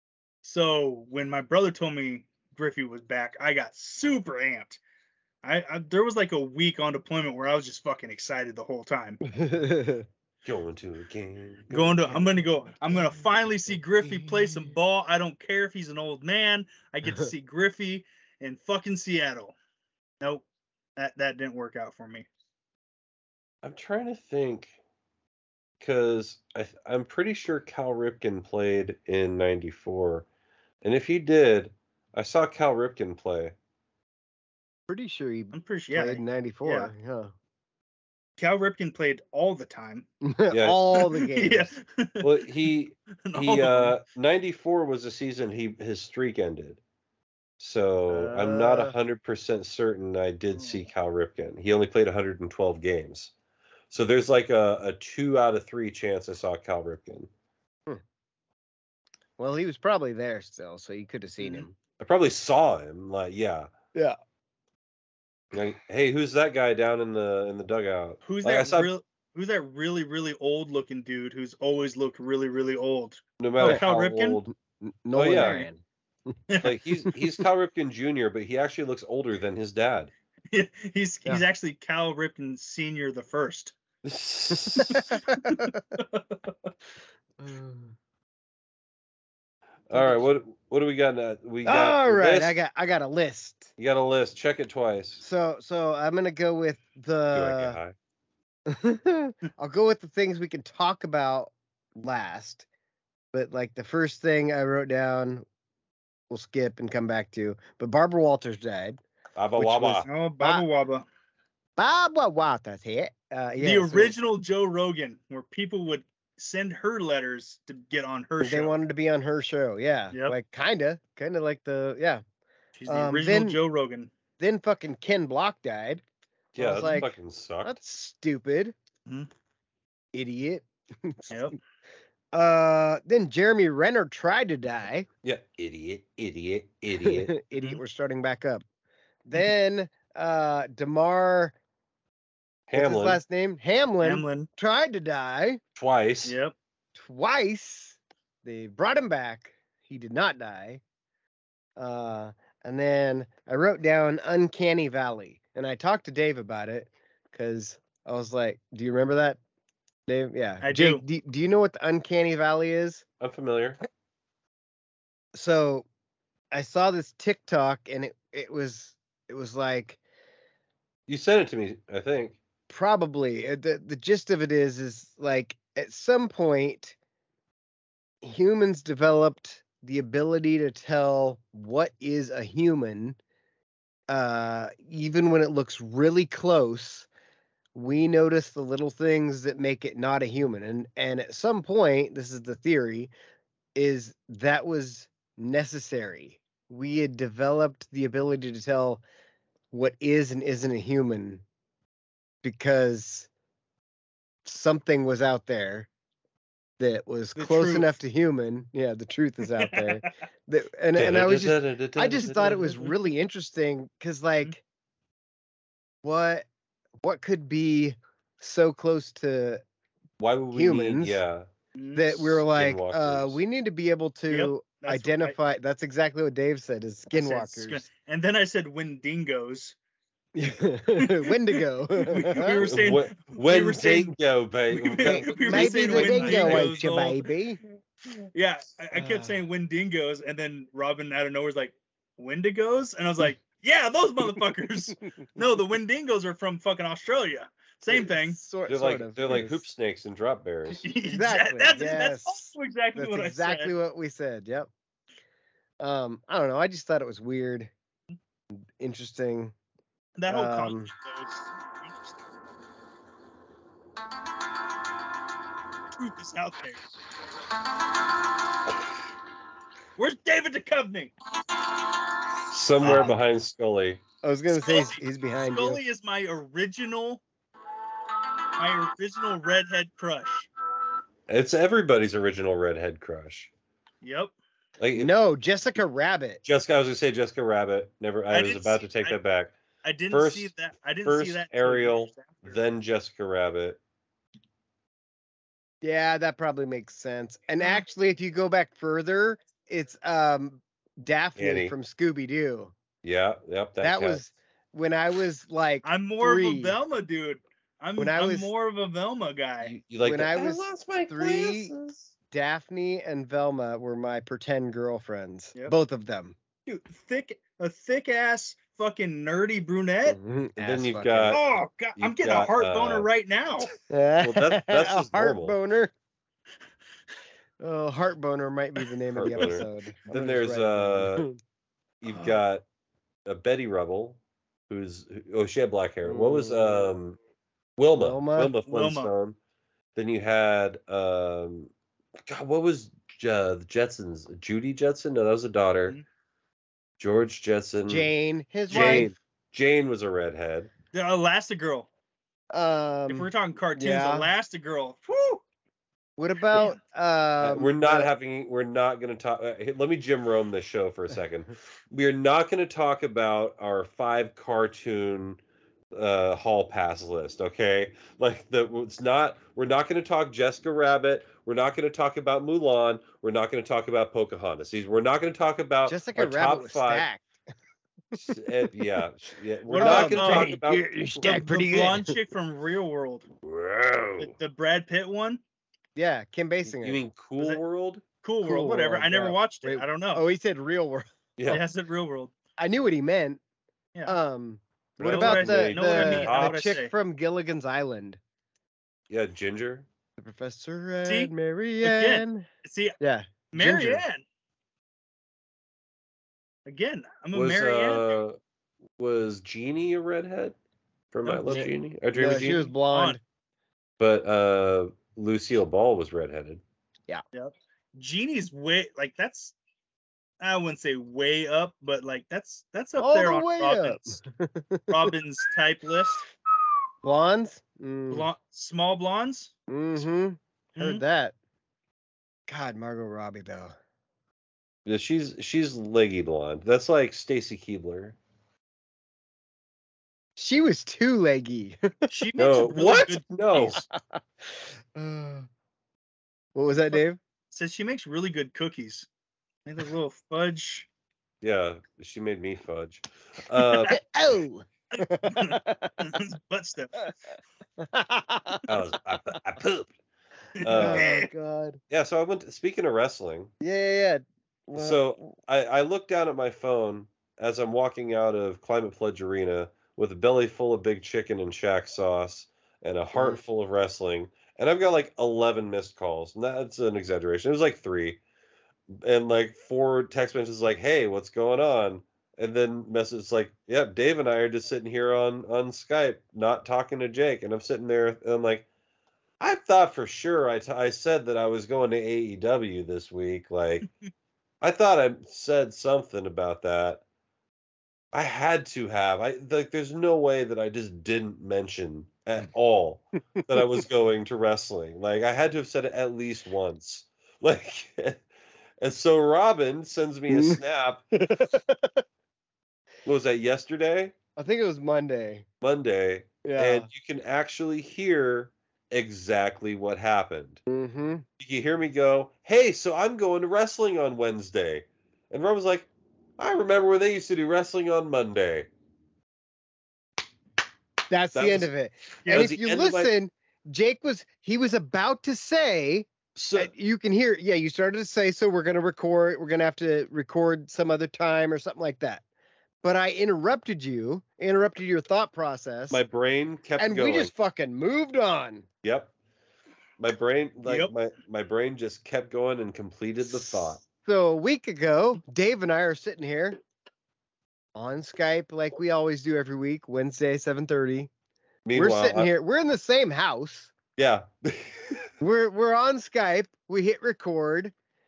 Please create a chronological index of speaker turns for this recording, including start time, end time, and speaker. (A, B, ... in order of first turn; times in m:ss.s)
0:00.4-0:04.8 A
0:05.4-0:09.2 A
0:09.3-0:10.1 B
0:10.4-0:12.4 C
0:11.7-0:19.6 A
0:14.1-0:14.6 B
0:21.0-0:22.3 A
0:23.6-0:24.8 C
0:25.8-0:30.2 C
0:30.8-0:33.5 C
0:34.9-0:37.3 B
0:35.5-0:36.9 A
0:38.4-0:40.1 A
0:40.2-0:41.7 B
0:40.5-0:40.8 C
0:40.9-0:42.5 A
0:42.2-0:46.8 C
0:43.2-0:44.0 A
0:47.6-0:53.3 C
0:48.1-0:48.6 A
0:48.3-0:49.0 B
0:50.6-0:50.9 A
0:53.9-0:57.3 C
0:59.4-1:01.8 B
1:01.4-1:01.7 A
1:02.0-1:03.7 C
1:05.5-1:08.9 C
1:08.2-1:14.4 A
1:13.4-1:14.5 C
1:14.5-1:15.8 B
1:15.2-1:15.6 C
1:15.3-1:15.7 A
1:16.5-1:16.8 A
1:16.6-1:20.1 C
1:20.5-1:23.8 A
1:24.0-1:25.2 C
1:24.7-1:25.8 B
1:24.8-1:26.5 A
1:27.4-1:28.0 B
1:29.9-1:32.6 C
1:29.9-1:30.2 B
1:31.6-1:33.7 B
1:33.8-1:35.2 C
1:35.2-1:37.8 B
1:37.3-1:37.9 C
1:38.7-1:42.7 B
1:43.3-1:45.4 B
1:46.3-1:49.0 B
1:49.4-1:50.1 C
1:49.6-1:50.6 B
1:50.1-1:51.1 A
1:51.8-1:54.1 B
1:53.6-1:58.7 A
1:58.4-2:02.2 B
2:00.1-2:00.4 A
2:02.8-2:04.1 A
2:02.9-2:03.6 B
2:04.4-2:06.0 B
2:06.6-2:07.8 C
2:06.6-2:08.7 B
2:10.1-2:11.4 B
2:11.3-2:11.6 A
2:12.3-2:15.1 B
2:15.2-2:17.3 C
2:17.0-2:18.6 B
2:19.3-2:21.6 B
2:22.7-2:23.2 C
2:22.8-2:25.6 B
2:24.0-2:24.5 A
2:25.8-2:26.4 C
2:26.2-2:26.5 A
2:27.0-2:30.8 B
2:31.8-2:39.4 B
2:40.1-2:43.0 B
2:40.6-2:41.0 A
2:43.2-2:43.8 C
2:45.4-2:45.9 B
2:46.5-2:50.0 B
2:51.1-2:52.4 C
2:52.7-2:57.0 B
2:58.2-3:03.2 B
3:04.1-3:07.1 B
3:07.8-3:13.1 B
3:13.8-3:19.0 B
3:19.7-3:21.4 B
3:22.4-3:23.3 B
3:24.4-3:25.9 B
3:26.8-3:34.6 B
3:27.4-3:28.0 A
3:29.6-3:30.1 A
3:31.0-3:33.0 C
3:36.0-3:36.5 B
3:37.0-3:39.6 B
3:40.2-3:41.5 C
3:40.5-3:41.2 B
3:41.8-3:42.2 A
3:42.0-3:47.8 B
3:42.2-3:43.4 C
3:44.3-3:45.4 A
3:47.1-3:49.8 A
3:50.4-3:52.6 B
3:51.0-3:54.2 A
3:52.6-3:56.7 C
3:54.7-3:57.3 A
3:55.0-3:57.6 B
3:58.3-4:08.4 A
3:59.0-3:59.4 B
4:07.9-4:09.6 B
4:08.7-4:10.9 C
4:10.7-4:13.7 A
4:11.1-4:14.7 B
4:15.8-4:17.7 B
4:18.5-4:19.5 B
4:20.2-4:22.1 A
4:20.3-4:20.9 B
4:26.0-4:26.8 A
4:30.0-4:31.1 A
4:32.5-4:34.0 C
4:32.8-4:33.2 A
4:32.8-4:33.2 B
4:34.2-4:35.8 B
4:34.5-4:37.2 A
4:38.6-4:40.5 A
4:41.3-4:43.5 C
4:44.0-4:44.3 A
4:44.8-4:45.1 C
4:44.9-4:46.4 B
4:46.4-4:49.5 C
4:48.3-4:49.2 A
4:49.8-4:52.6 A
4:50.1-4:50.5 C
4:51.0-4:53.8 C
4:55.8-5:02.7 B
5:01.4-5:01.8 C
5:03.0-5:04.2 C
5:03.8-5:06.8 B
5:05.8-5:09.8 A
5:08.0-5:08.5 B
5:09.6-5:12.1 C
5:10.0-5:11.7 B
5:12.3-5:16.4 B
5:16.7-5:20.2 A
5:20.1-5:21.4 B
5:20.6-5:21.4 C
5:21.3-5:23.7 A
5:22.0-5:23.1 C
5:23.9-5:25.9 B
5:24.2-5:25.6 C
5:27.6-5:31.4 B
5:29.1-5:31.3 C
5:29.4-5:29.6 A
5:32.0-5:32.6 C
5:32.1-5:32.4 A
5:33.3-5:34.2 C
5:34.7-5:37.2 C
5:36.0-5:36.9 B
5:37.8-5:39.4 C
5:38.0-5:38.5 B
5:38.7-5:39.1 A
5:40.0-5:41.7 C
5:42.3-5:46.0 C
5:47.0-5:48.1 C
5:47.9-5:49.1 B
5:48.7-5:49.1 A
5:48.7-5:50.7 C
5:50.9-5:51.9 A
5:52.5-5:54.3 B
5:53.1-5:55.4 A
5:56.2-5:58.1 B
5:56.5-5:56.8 A
5:57.4-6:05.4 C
6:05.9-6:17.1 C
6:15.9-6:17.3 B
6:18.1-6:21.8 C
6:19.7-6:20.6 A
6:19.7-6:22.1 B
6:21.2-6:23.3 A
6:23.4-6:24.3 C
6:24.2-6:25.4 A
6:26.0-6:27.0 B
6:26.8-6:28.0 C
6:28.2-6:30.2 A
6:28.4-6:31.6 B
6:31.4-6:31.6 C
6:31.5-6:32.3 A
6:32.6-6:33.4 B
6:34.1-6:38.2 B
6:35.0-6:36.8 C
6:35.0-6:36.9 A
6:39.1-6:39.9 C
6:40.2-6:42.5 B
6:41.0-6:43.0 A
6:43.0-6:44.0 B
6:43.5-6:44.2 A
6:46.7-6:48.2 A
6:47.3-6:48.4 C
6:49.0-6:50.6 C
6:51.1-6:52.7 C
6:51.2-6:51.7 A
6:51.5-6:53.2 B
6:52.3-6:53.2 A
6:54.0-6:56.6 C
6:57.3-6:59.6 A
7:00.4-7:04.2 A
7:03.0-7:05.1 B
7:04.9-7:06.3 A
7:07.0-7:08.3 B
7:08.1-7:09.5 A
7:09.7-7:11.3 B
7:10.8-7:11.0 A
7:12.5-7:13.8 B
7:14.9-7:18.2 C
7:20.4-7:22.6 B
7:22.1-7:23.8 A
7:22.4-7:23.8 C
7:23.6-7:25.5 B
7:26.6-7:27.2 B
7:26.9-7:29.1 A
7:29.7-7:30.9 A
7:31.4-7:34.0 C
7:33.8-7:36.0 B
7:34.9-7:37.1 A
7:37.8-7:38.6 B
7:38.7-7:39.9 C
7:40.6-7:41.3 A
7:40.6-7:41.1 C
7:40.7-7:41.8 B
7:41.9-7:43.5 C
7:43.6-7:45.3 B
7:44.8-7:58.2 C
7:53.1-7:53.4 B
7:59.0-8:08.7 C
8:09.4-8:13.9 C
8:14.6-8:17.0 C
8:18.1-8:28.2 C
8:28.8-8:31.0 C
8:30.3-8:30.6 B
8:31.2-8:32.0 B
8:33.0-8:34.2 C
8:34.4-8:35.5 B
8:35.6-8:40.6 C
8:36.4-8:36.9 B
8:40.7-8:41.2 B
8:41.4-8:48.7 C
8:51.1-9:02.2 B
8:51.3-8:51.7 C
8:52.2-8:53.1 C
8:56.4-8:56.7 C
9:02.8-9:06.0 B
9:05.9-9:07.3 C
9:06.8-9:08.7 B
9:08.8-9:09.1 C
9:10.0-9:13.8 C
9:10.6-9:10.9 A
9:13.2-9:16.6 B
9:17.8-9:21.1 B
9:21.7-9:22.3 C
9:21.8-9:23.7 B
9:24.0-9:25.1 C
9:25.2-9:27.7 B